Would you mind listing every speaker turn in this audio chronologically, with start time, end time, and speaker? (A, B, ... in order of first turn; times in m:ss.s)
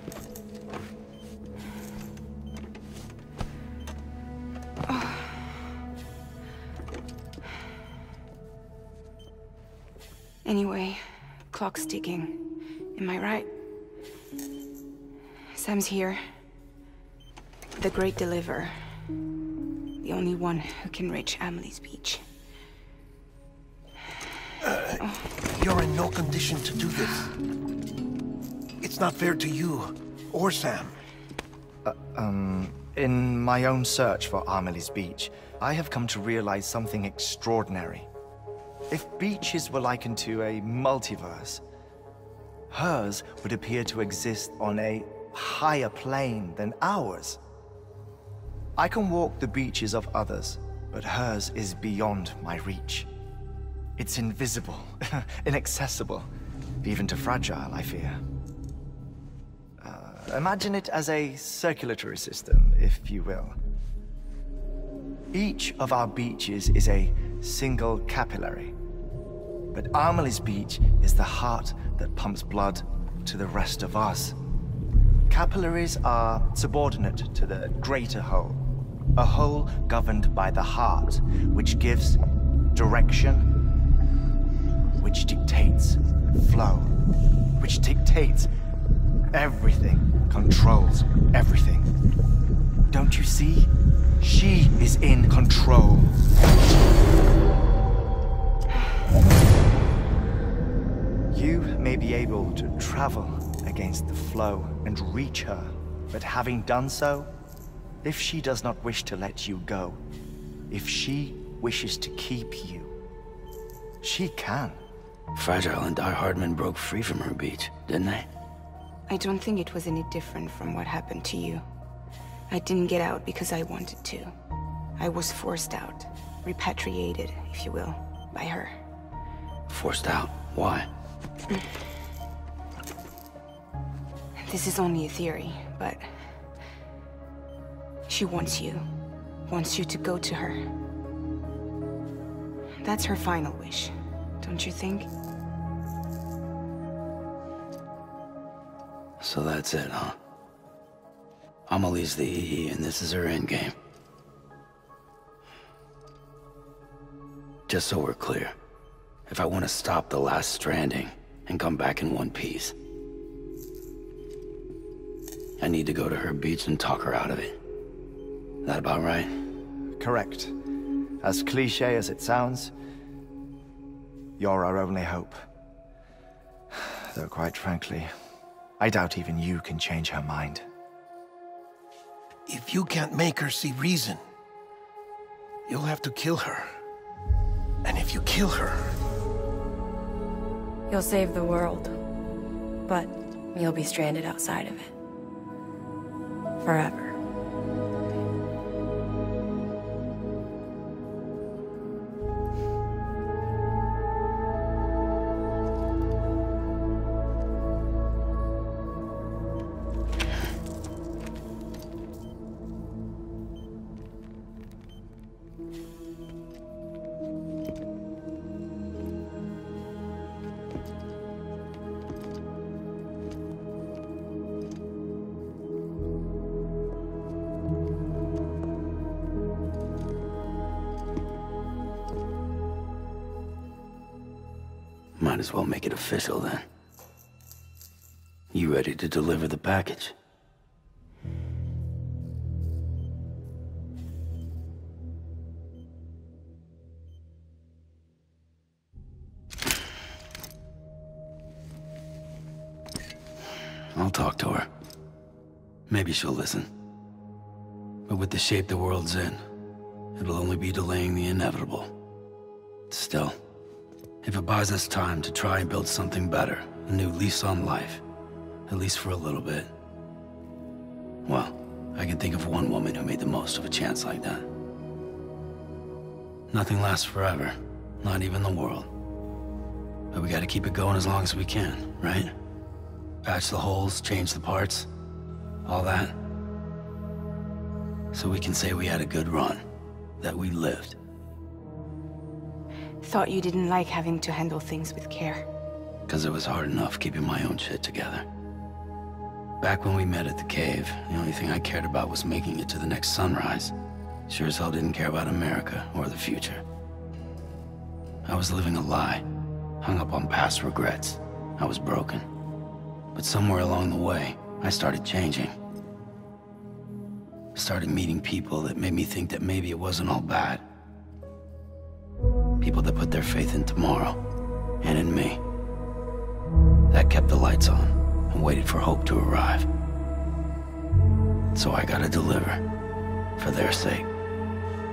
0:04.9-0:05.4 A
0:10.4-0:12.4 A
0:13.0-0:13.5 A
0:15.5-0:16.2 A
0:17.8-0:18.8 A
0:20.0-0:22.2 A
0:24.6-0:25.0 B
0:25.6-0:27.3 B
0:28.8-0:31.0 B
0:31.8-0:38.1 C
0:38.9-0:41.6 C
0:42.7-0:47.4 C
0:48.8-0:53.1 C
0:54.0-0:56.3 C
0:56.8-0:58.2 C
0:59.8-1:03.6 C
1:05.3-1:08.8 C
1:09.7-1:14.4 C
1:15.3-1:18.6 C
1:19.2-1:22.2 C
1:22.7-1:23.5 C
1:25.0-1:27.0 C
1:27.6-1:28.5 C
1:29.3-1:31.9 C
1:32.9-1:36.2 C
1:41.3-1:47.3 C
1:48.0-1:50.0 C
1:50.7-1:52.9 C
1:54.0-1:54.8 C
1:55.4-1:58.3 D
1:59.1-2:01.6 A
2:02.5-2:04.4 A
2:05.0-2:08.8 A
2:09.7-2:10.9 D
2:14.4-2:16.4 A
2:18.1-2:18.9 A
2:19.5-2:20.6 A
2:22.8-2:25.1 A
2:29.2-2:30.2 D
2:31.7-2:33.7 D
2:37.7-2:38.5 D
2:39.3-2:42.8 D
2:45.6-2:47.6 D
2:48.6-2:49.3 D
2:50.0-2:50.6 C
2:51.2-2:52.7 C
2:54.4-2:55.4 C
2:56.7-2:58.1 C
2:58.8-3:00.7 C
3:02.5-3:04.2 B
3:05.7-3:06.8 B
3:07.8-3:08.9 B
3:10.9-3:12.0 E
3:12.9-3:14.9 E
3:16.6-3:17.2 E
3:55.2-3:56.7 D
3:58.5-4:00.2 D
4:14.0-4:14.7 D
4:15.9-4:16.7 D
4:18.1-4:19.4 D
4:20.2-4:21.9 D
4:22.9-4:23.4 D
4:24.2-4:28.0 D
4:28.7-4:29.7 D
4:31.2-4:34.5 D
4:36.5-4:38.9 D
4:40.1-4:42.3 D
4:43.2-4:44.9 D
4:45.7-4:46.2 D
4:48.1-4:49.6 D
4:50.2-4:51.0 D
4:53.0-4:55.5 A
4:56.1-4:58.2 D
4:59.6-5:03.7 D
5:04.3-5:06.6 D
5:08.2-5:09.2 D
5:09.8-5:12.3 D
5:13.1-5:15.5 D
5:17.6-5:20.6 D
5:22.6-5:24.2 D
5:24.8-5:25.4 D
5:26.9-5:29.7 D
5:31.5-5:32.6 D
5:33.4-5:34.1 D